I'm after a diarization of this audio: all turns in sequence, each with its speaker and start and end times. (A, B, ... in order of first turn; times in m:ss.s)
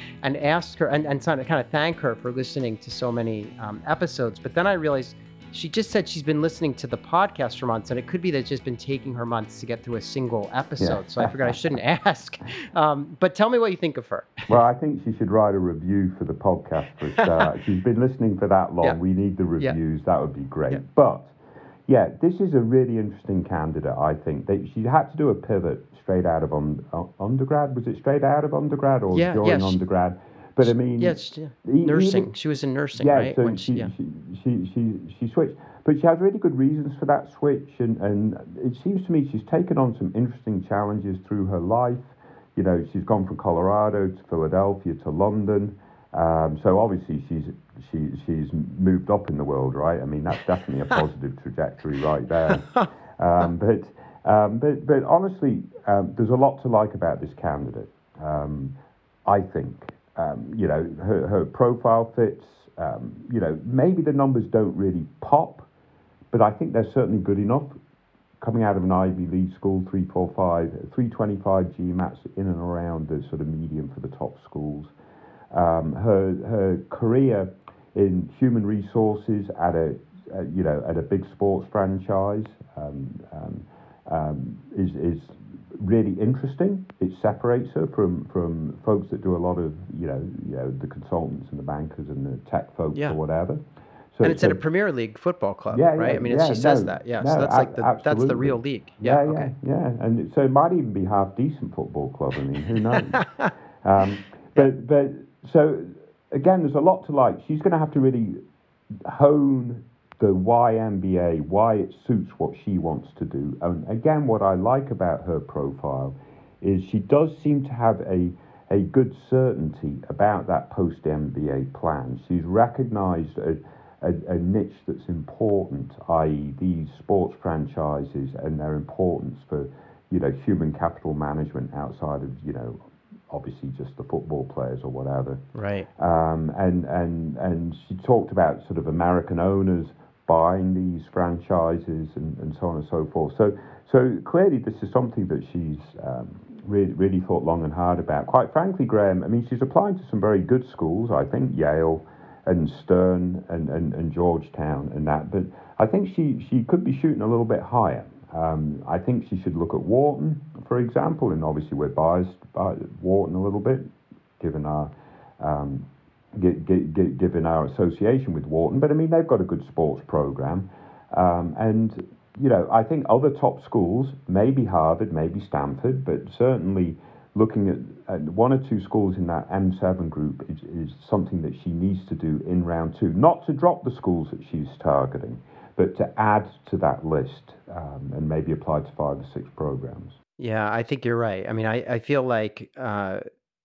0:00.2-0:14.6 A
0:10.8-0:11.6 B
0:14.5-0:21.3 B
0:17.2-0:17.5 A
0:21.9-0:32.3 B
0:29.1-0:29.8 A
0:30.6-0:33.9 A
0:33.0-1:05.7 B
0:52.5-0:52.9 A
1:06.3-1:07.7 B
1:08.4-1:14.9 B
1:15.5-1:33.6 B
1:34.1-1:34.6 B
1:34.2-1:39.5 A
1:35.7-1:43.2 B
1:42.8-1:43.5 A
1:43.8-1:48.4 B
1:49.0-2:15.4 B
2:15.6-2:15.9 A
2:16.0-3:10.2 B
3:10.4-3:13.2 A